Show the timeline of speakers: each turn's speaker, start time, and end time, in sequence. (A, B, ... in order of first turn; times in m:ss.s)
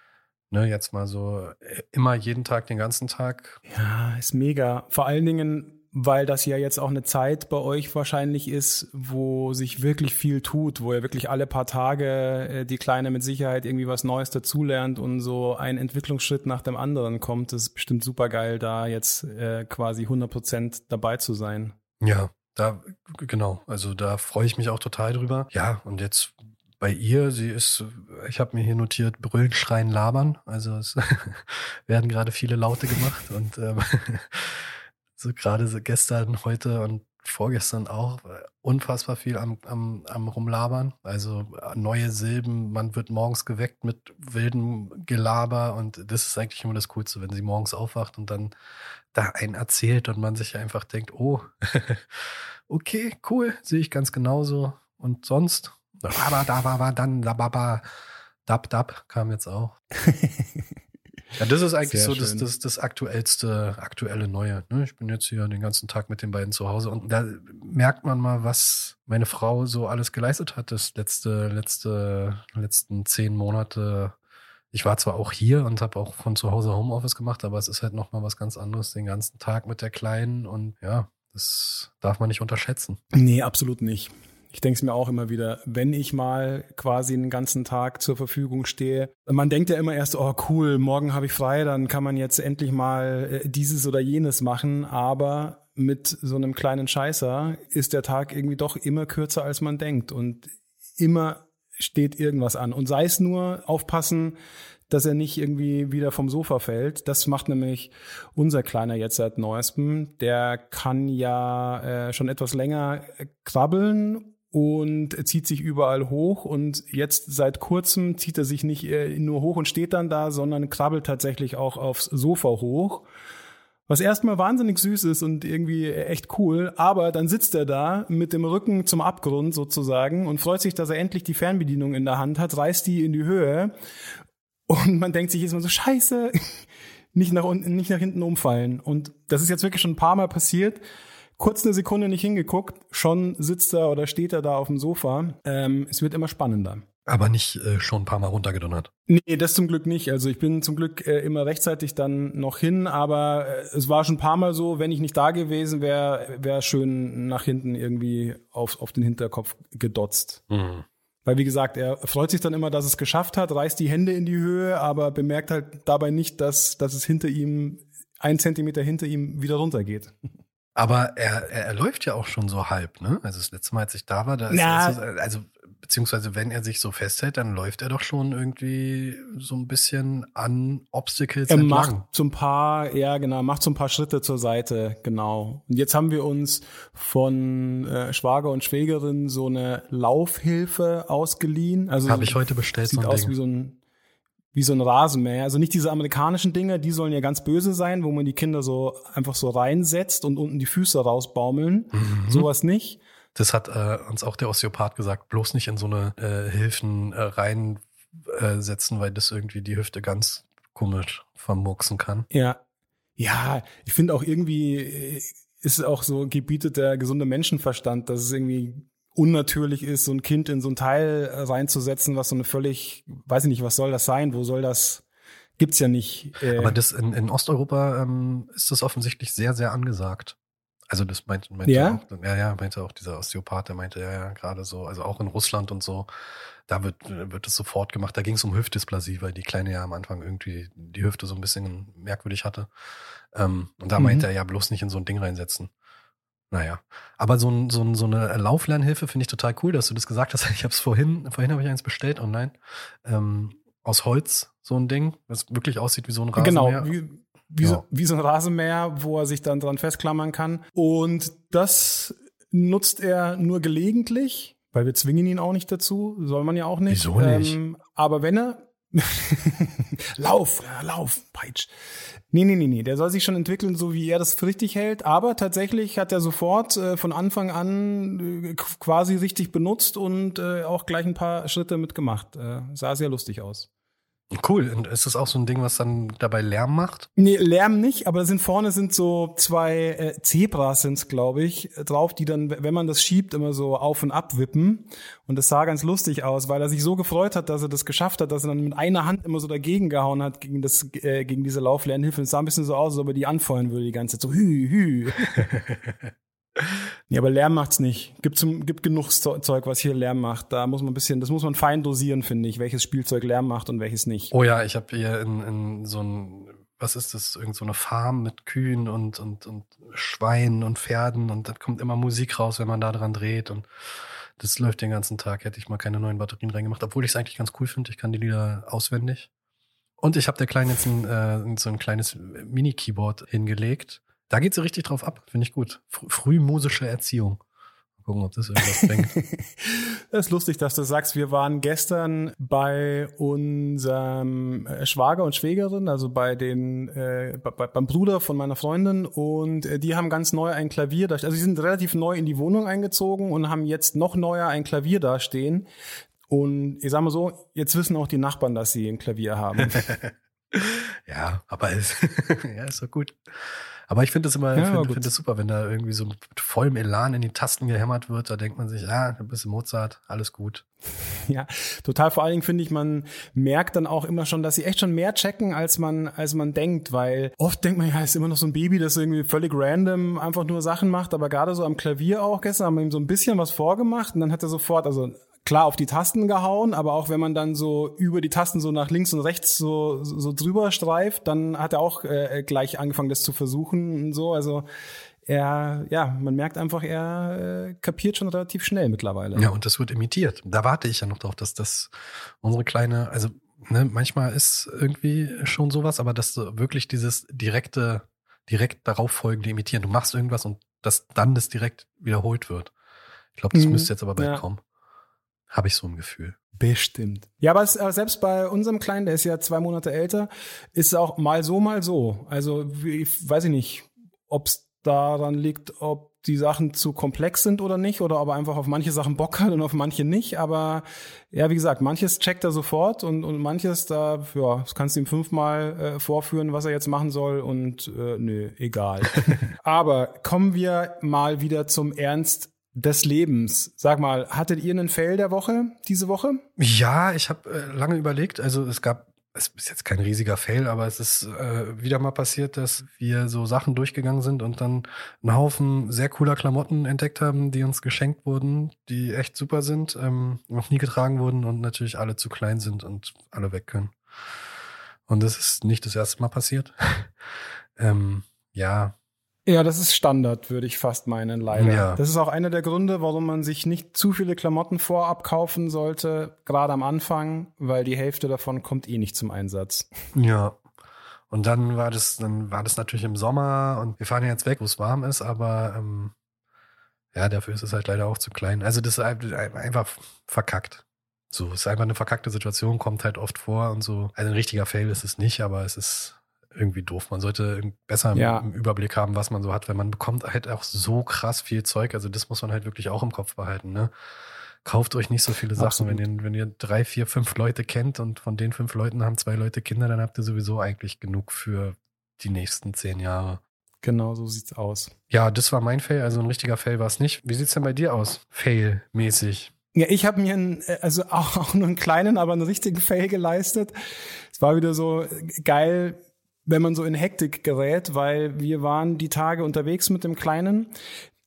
0:00.5-0:03.6 A
0:03.7-0:21.8 B
0:22.0-0:48.5 A
0:49.1-0:57.8 A
0:58.5-0:59.8 A
1:00.0-1:00.6 B
1:01.4-1:14.1 A
1:01.9-1:02.4 B
1:14.7-1:23.0 A
1:23.1-1:44.4 B
1:44.9-2:03.1 B
2:03.9-2:13.7 B
2:14.7-2:20.8 B
2:21.4-2:26.8 B
2:27.1-2:28.9 A
2:29.1-2:40.4 B
2:40.5-2:40.8 A
2:41.2-2:50.1 B
2:50.8-3:02.0 A
2:54.5-2:55.0 B
3:01.5-3:13.8 B
3:12.1-3:13.4 A
3:14.5-3:23.0 B
3:21.9-3:22.5 A
3:23.4-3:32.3 A
3:32.3-3:32.6 B
3:33.2-3:45.0 B
3:45.6-3:46.8 B
3:46.4-3:50.4 A
3:50.9-3:56.1 A
3:51.7-3:52.0 B
3:56.7-4:02.7 A
4:03.3-4:05.7 A
4:04.0-4:04.3 B
4:06.5-4:16.9 A
4:16.4-4:31.7 B
4:26.9-4:27.6 A
4:32.3-4:43.7 B
4:44.3-4:47.1 A
4:47.2-5:05.5 B
5:07.1-5:14.3 B
5:14.3-5:23.7 A
5:24.4-5:29.3 A
5:30.0-5:37.4 A
5:38.0-5:39.1 A
5:38.8-5:55.7 B
5:56.3-5:59.8 B
5:59.6-6:03.2 A
6:03.9-6:10.6 A
6:04.6-6:05.1 B
6:11.3-6:34.7 B
6:35.2-6:39.5 B
6:39.4-6:52.7 A
6:53.4-6:54.6 A
6:53.5-6:54.4 B
6:55.5-6:56.4 A
6:56.6-7:26.4 B
7:26.6-7:43.9 A
7:45.1-7:47.1 A
7:47.8-7:49.0 A
7:49.5-7:59.9 B
7:51.6-7:52.0 A
8:00.1-8:00.6 A
8:01.3-8:06.1 A
8:07.1-8:23.9 A
8:18.2-8:18.5 B
8:24.6-8:33.4 A
8:25.6-8:26.0 B
8:33.8-8:34.9 B
8:35.1-8:39.5 A
8:39.7-8:43.7 B
8:44.3-8:50.7 B